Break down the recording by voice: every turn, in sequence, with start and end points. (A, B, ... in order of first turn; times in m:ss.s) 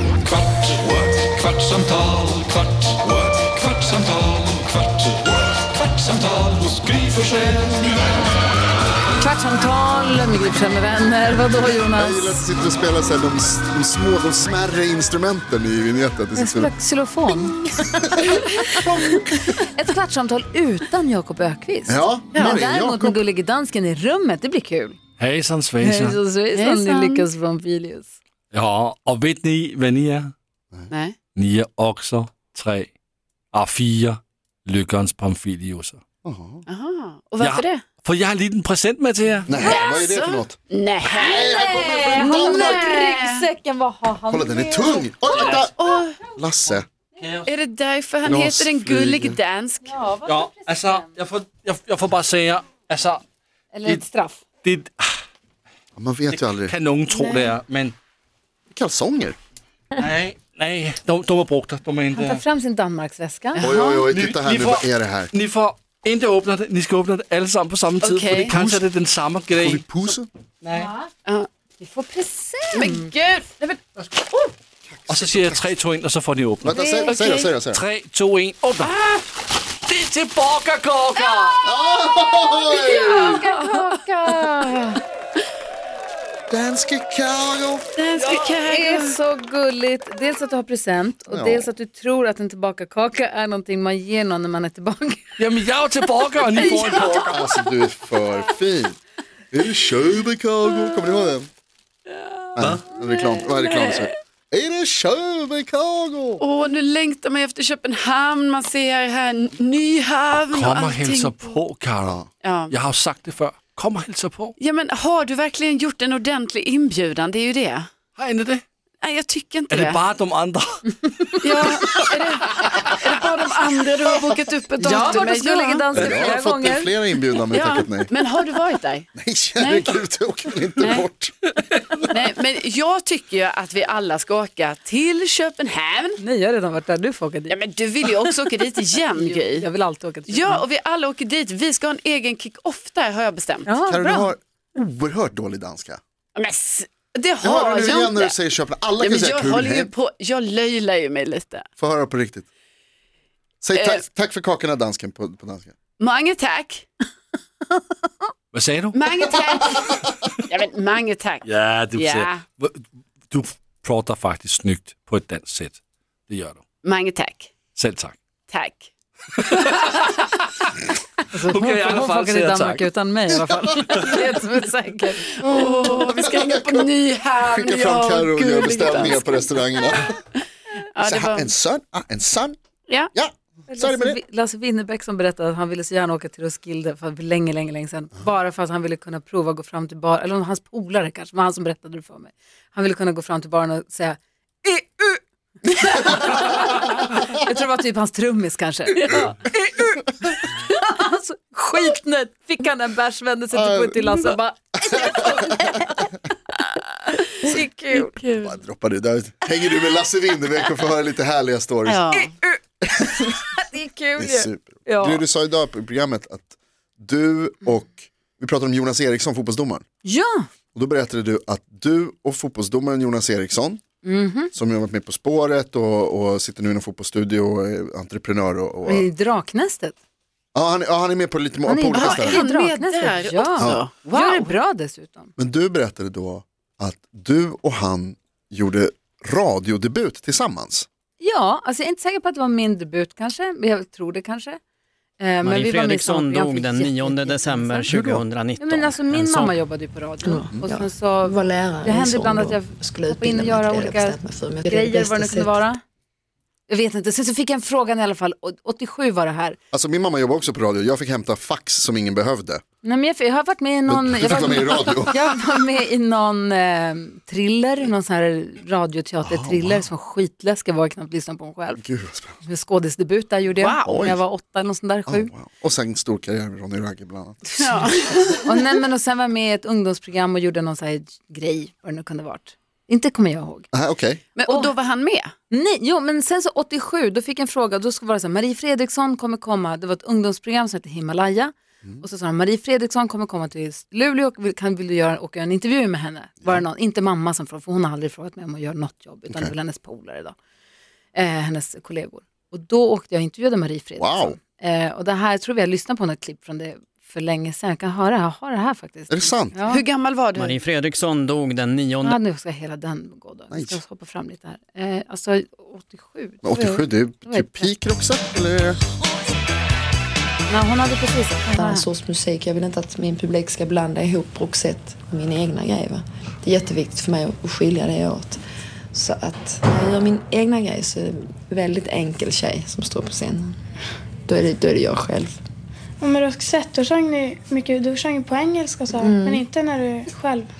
0:00.7-0:04.6 A
0:06.0-0:07.2 A
0:09.2-0:12.5 B
0:11.9-0:16.7 C
0:16.3-0:18.8 B
0:18.0-0:19.6 C
0:19.5-0:25.0 B
0:21.9-0:23.2 C
0:25.2-0:26.2 D
0:25.8-0:28.2 B
0:26.5-0:27.2 E
0:28.5-0:30.3 D
0:30.9-0:31.2 E
0:31.4-0:32.9 D
0:33.5-0:36.0 D
0:36.2-0:36.6 C
0:36.7-0:37.8 E
0:37.4-0:39.6 D
0:39.5-0:43.0 C
0:39.6-0:43.4 E
0:41.2-0:45.1 B
0:44.3-0:45.7 C
0:45.4-0:46.2 E
0:46.3-0:46.9 C
0:47.2-0:47.5 D
0:47.4-0:50.0 E
0:48.2-0:49.4 C
0:49.8-0:51.2 B
0:50.3-0:53.2 D
0:53.7-0:54.4 B
0:54.6-0:55.2 D
0:56.0-0:56.7 C
0:56.3-0:57.9 D
0:58.7-0:59.4 C
1:00.0-1:02.4 D
1:02.1-1:04.0 B
1:03.5-1:04.0 E
1:03.6-1:05.3 C
1:04.1-1:09.8 D
1:08.0-1:08.5 E
1:08.5-1:08.8 C
1:09.6-1:10.3 C
1:10.6-1:10.9 D
1:10.7-1:11.1 B
1:11.8-1:13.1 B
1:12.7-1:14.5 E
1:14.9-1:15.7 C
1:15.1-1:16.8 D
1:16.6-1:17.8 C
1:16.7-1:17.1 B
1:17.0-1:17.5 E
1:17.7-1:18.9 D
1:18.8-1:19.3 E
1:19.8-1:21.6 D
1:21.6-1:23.4 C
1:22.7-1:24.5 E
1:22.8-1:25.0 B
1:26.5-1:27.9 C
1:28.0-1:29.1 E
1:28.6-1:35.4 B
1:31.3-1:31.7 C
1:35.4-1:37.4 D
1:36.6-1:39.0 C
1:39.5-1:41.5 C
1:42.6-1:46.4 C
1:46.4-1:51.4 E
1:50.5-1:54.5 D
1:52.4-1:52.7 E
1:54.6-1:57.9 E
1:58.2-1:58.6 D
1:59.0-2:00.0 E
1:59.7-2:01.9 D
2:01.4-2:05.9 E
2:04.8-2:06.9 B
2:05.9-2:08.1 C
2:07.5-2:09.9 E
2:09.1-2:11.3 C
2:10.8-2:11.1 E
2:12.1-2:16.2 E
2:16.2-2:17.6 B
2:17.5-2:19.6 E
2:19.1-2:20.6 B
2:20.3-2:23.7 E
2:23.6-2:24.3 B
2:23.8-2:26.0 C
2:26.4-2:28.4 E
2:27.4-2:29.9 C
2:29.0-2:31.6 E
2:31.8-2:32.5 C
2:33.6-2:35.7 C
2:33.7-2:34.0 E
2:36.0-2:36.9 E
2:38.5-2:39.0 D
2:38.9-2:39.9 E
2:40.5-2:42.4 E
2:41.4-2:42.8 D
2:43.3-2:46.6 D
2:46.8-2:47.5 E
2:47.7-2:48.2 D
2:48.5-2:48.9 E
2:49.4-2:50.2 D
2:49.5-2:50.0 E
2:51.3-2:55.3 B
2:51.4-2:52.8 D
2:55.3-3:00.0 E
2:55.6-2:56.9 C
2:57.4-3:00.2 C
3:00.9-3:01.5 E
3:01.0-3:02.6 C
3:03.1-3:04.2 C
3:03.7-3:26.0 B
3:23.5-3:24.3 C
3:24.8-3:25.8 C
3:27.4-3:28.2 B
3:27.9-3:28.6 E
3:28.4-3:32.1 C
3:31.8-3:32.3 E
3:32.2-3:35.2 B
3:34.2-3:39.8 C
3:40.0-3:40.5 B
3:40.7-3:43.8 C
3:44.0-3:44.5 B
3:44.5-3:49.1 C
3:48.8-3:50.0 B
3:50.5-3:52.4 C
3:51.6-3:55.3 B
3:51.9-3:54.5 E
3:53.6-3:53.8 C
3:55.4-4:00.9 C
4:01.2-4:04.6 B
4:05.2-4:15.8 B
4:05.4-4:09.6 F
4:10.2-4:15.6 G
4:16.7-4:19.6 B
4:19.7-4:22.6 C
4:22.8-4:31.8 B
4:23.9-4:25.2 C
4:29.2-4:29.8 C
4:31.7-4:32.4 C
4:32.4-4:35.3 B
4:33.6-4:33.9 E
4:33.8-4:34.2 C
4:35.1-4:38.0 C
4:37.6-4:38.6 E
4:38.4-4:43.7 B
4:43.7-4:44.2 C
4:44.3-4:45.3 E
4:44.5-4:44.7 B
4:45.5-5:00.4 B
5:01.1-5:09.8 B
5:04.0-5:04.4 C
5:09.1-5:09.6 C
5:09.7-5:10.6 E
5:10.4-5:12.2 F
5:12.0-5:17.7 B
5:13.5-5:13.8 C
5:16.4-5:18.8 C
5:20.5-5:21.8 B
5:21.5-5:28.4 G
5:28.9-5:33.6 G
5:34.2-5:35.4 G
5:36.0-5:40.5 H
5:39.0-5:39.5 G